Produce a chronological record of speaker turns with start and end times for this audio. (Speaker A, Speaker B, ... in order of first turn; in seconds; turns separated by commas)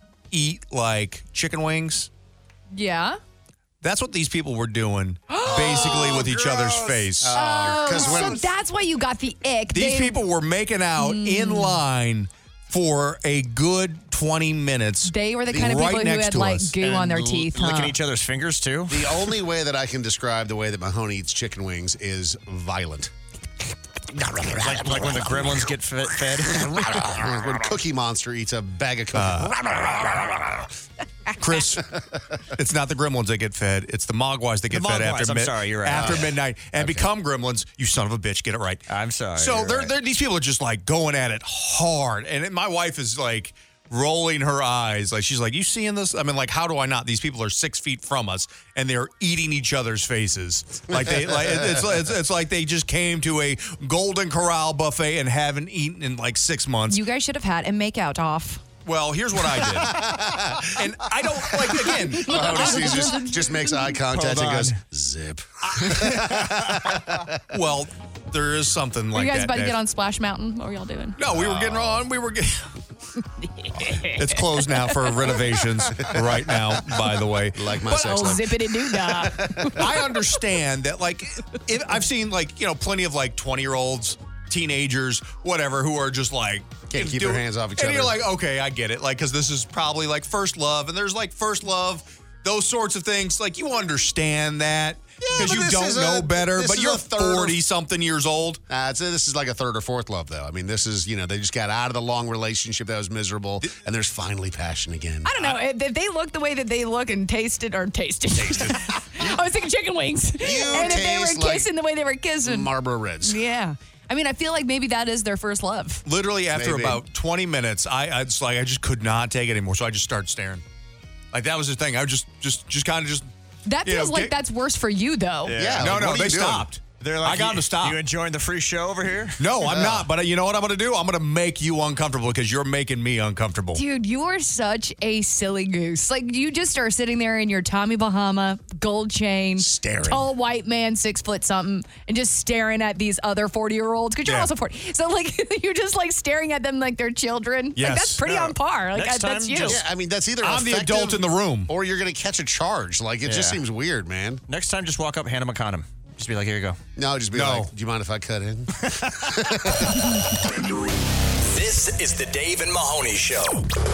Speaker A: 0.3-2.1, Speaker B: 2.7-3.2, Speaker A: 3.8-8.2, Speaker B: 5.3-6.3, Speaker C: 5.5-8.4, Speaker B: 7.3-10.2, Speaker A: 9.7-16.7, Speaker B: 11.0-11.8, Speaker B: 15.0-17.9, Speaker D: 16.9-19.1, Speaker C: 18.9-23.1, Speaker C: 24.2-25.6, Speaker D: 24.5-26.7, Speaker C: 26.4-30.7, Speaker A: 29.1-29.6, Speaker A: 31.4-31.8, Speaker A: 32.6-38.8, Speaker D: 34.7-36.3, Speaker C: 36.0-37.0, Speaker D: 38.9-39.9, Speaker A: 39.4-57.0, Speaker C: 50.9-52.0, Speaker B: 56.9-58.6, Speaker A: 58.8-63.0, Speaker C: 59.5-60.8, Speaker C: 61.4-67.4, Speaker B: 62.1-63.8, Speaker D: 64.2-64.6, Speaker A: 65.8-66.3, Speaker A: 67.5-69.8, Speaker B: 69.1-71.2, Speaker A: 71.2-72.7, Speaker C: 71.3-72.0, Speaker B: 73.4-75.1, Speaker A: 74.0-78.4, Speaker C: 76.0-76.4, Speaker C: 77.5-78.4, Speaker B: 78.0-80.0, Speaker C: 79.1-79.8, Speaker A: 79.8-98.6, Speaker C: 86.9-88.2, Speaker C: 95.2-97.6, Speaker C: 98.7-105.4, Speaker B: 105.2-112.7, Speaker C: 110.4-111.7, Speaker C: 112.4-113.4, Speaker B: 113.2-116.0, Speaker A: 116.0-120.6, Speaker C: 116.5-117.0, Speaker A: 121.3-123.3, Speaker B: 123.7-125.5, Speaker A: 123.8-124.3, Speaker D: 125.5-126.0, Speaker C: 125.6-126.7, Speaker A: 125.8-128.0, Speaker D: 127.0-129.5, Speaker A: 129.4-133.8, Speaker C: 129.7-130.1, Speaker B: 133.7-149.8, Speaker C: 139.6-140.3, Speaker A: 144.2-144.5, Speaker A: 147.8-148.2, Speaker D: 148.9-149.8, Speaker C: 149.7-154.4, Speaker A: 150.4-151.7, Speaker D: 153.2-153.6, Speaker D: 154.5-156.8, Speaker C: 156.9-160.0, Speaker A: 157.3-157.7, Speaker E: 161.5-163.6